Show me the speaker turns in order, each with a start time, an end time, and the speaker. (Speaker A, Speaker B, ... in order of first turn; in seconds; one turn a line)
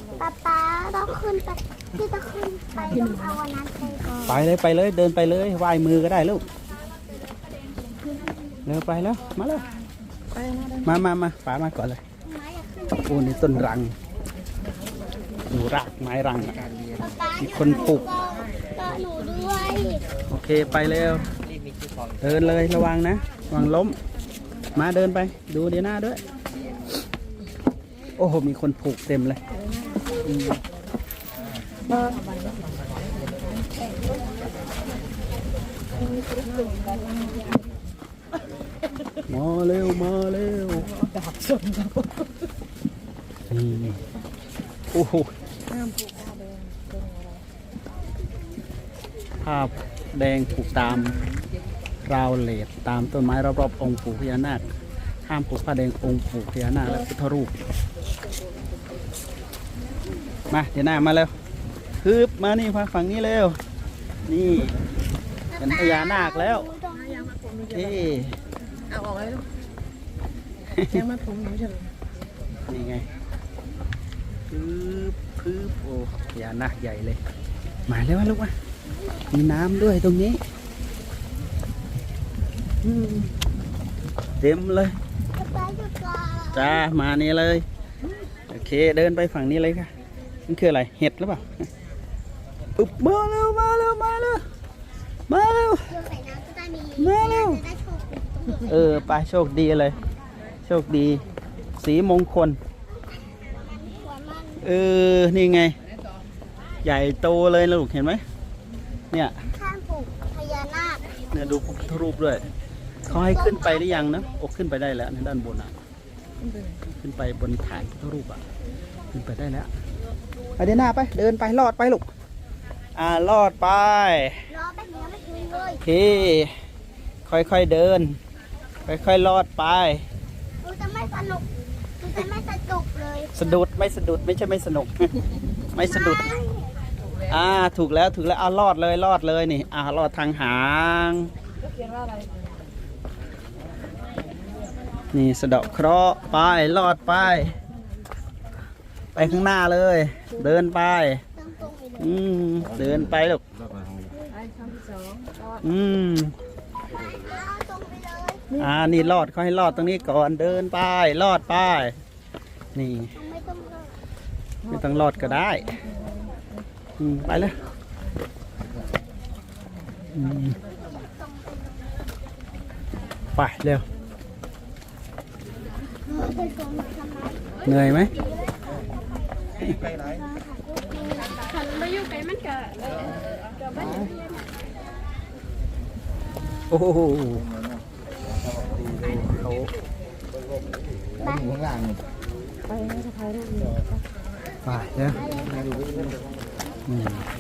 Speaker A: 0.2-4.4
Speaker B: 2.9-3.4
Speaker C: 4.3-6.4
Speaker C: 8.7-9.7
Speaker B: 10.3-11.0
Speaker C: 10.8-12.0
Speaker A: 12.2-13.6
Speaker C: 13.1-13.9
Speaker C: 15.5-16.7
Speaker A: 17.0-20.0
Speaker C: 17.4-18.1
Speaker C: 20.3-21.3
Speaker C: 22.2-24.0
Speaker C: 24.8-26.2
Speaker C: 28.2-29.4
Speaker B: 29.5-30.3
Speaker C: 30.2-30.6
Speaker B: 31.9-33.9
Speaker B: 36.0-37.7
Speaker C: 39.3-40.9
Speaker B: 40.8-42.3
Speaker C: 43.5-44.0
Speaker C: 44.9-45.3
Speaker B: 45.7-47.4
Speaker C: 49.4-51.2
Speaker C: 52.0-54.7
Speaker C: 55.3-57.5
Speaker C: 60.5-61.3
Speaker C: 62.0-63.6
Speaker C: 64.3-64.8
Speaker A: 65.5-67.3
Speaker C: 65.6-66.7
Speaker B: 67.2-68.0
Speaker C: 67.7-68.3
Speaker B: 68.9-69.5
Speaker C: 70.7-71.0
Speaker B: 70.9-71.9
Speaker C: 72.7-73.0
Speaker C: 74.5-77.2
Speaker C: 77.9-78.5
Speaker A: 78.9-79.4
Speaker C: 79.3-80.4
Speaker C: 82.8-83.3
Speaker C: 84.4-85.0
Speaker A: 85.3-86.8
Speaker C: 86.5-87.7
Speaker C: 88.5-89.9
Speaker C: 90.5-91.7
Speaker C: 92.8-94.4
Speaker C: 95.3-96.0
Speaker A: 95.9-98.9
Speaker C: 97.0-97.6
Speaker C: 98.7-100.0
Speaker C: 100.7-101.2
Speaker C: 101.8-102.6
Speaker A: 102.9-104.7
Speaker C: 104.6-105.8
Speaker C: 106.8-108.2
Speaker A: 109.5-111.1
Speaker C: 111.3-112.4
Speaker C: 113.1-115.7
Speaker A: 113.1-114.3
Speaker B: 116.4-116.8
Speaker C: 117.0-118.4
Speaker C: 119.1-119.7
Speaker C: 120.6-122.1
Speaker C: 123.0-124.4
Speaker A: 124.5-125.8
Speaker C: 125.8-126.5
Speaker C: 127.3-128.2
Speaker C: 128.9-130.1
Speaker A: 130.6-131.5
Speaker A: 132.0-133.4
Speaker C: 133.3-135.1
Speaker C: 135.7-136.3
Speaker A: 135.8-136.8
Speaker C: 137.3-141.3
Speaker B: 141.6-142.5
Speaker C: 145.1-147.6
Speaker A: 149.2-149.5
Speaker C: 149.2-151.2
Speaker A: 151.3-152.2
Speaker C: 152.0-153.4
Speaker B: 154.3-155.6
Speaker C: 155.6-156.3
Speaker A: 156.9-158.4
Speaker C: 158.6-161.9
Speaker C: 162.8-163.1
Speaker A: 163.2-163.9
Speaker B: 164.7-166.5
Speaker C: 164.7-165.8
Speaker C: 167.0-167.6
Speaker C: 170.1-170.6
Speaker A: 170.5-172.0
Speaker C: 173.4-173.8
Speaker A: 176.0-183.0
Speaker C: 177.7-178.1
Speaker A: 183.7-184.7
Speaker C: 186.7-187.5
Speaker C: 188.8-189.7
Speaker A: 191.2-191.8
Speaker B: 192.7-194.0
Speaker C: 194.7-195.2
Speaker A: 195.1-195.7
Speaker C: 196.9-197.3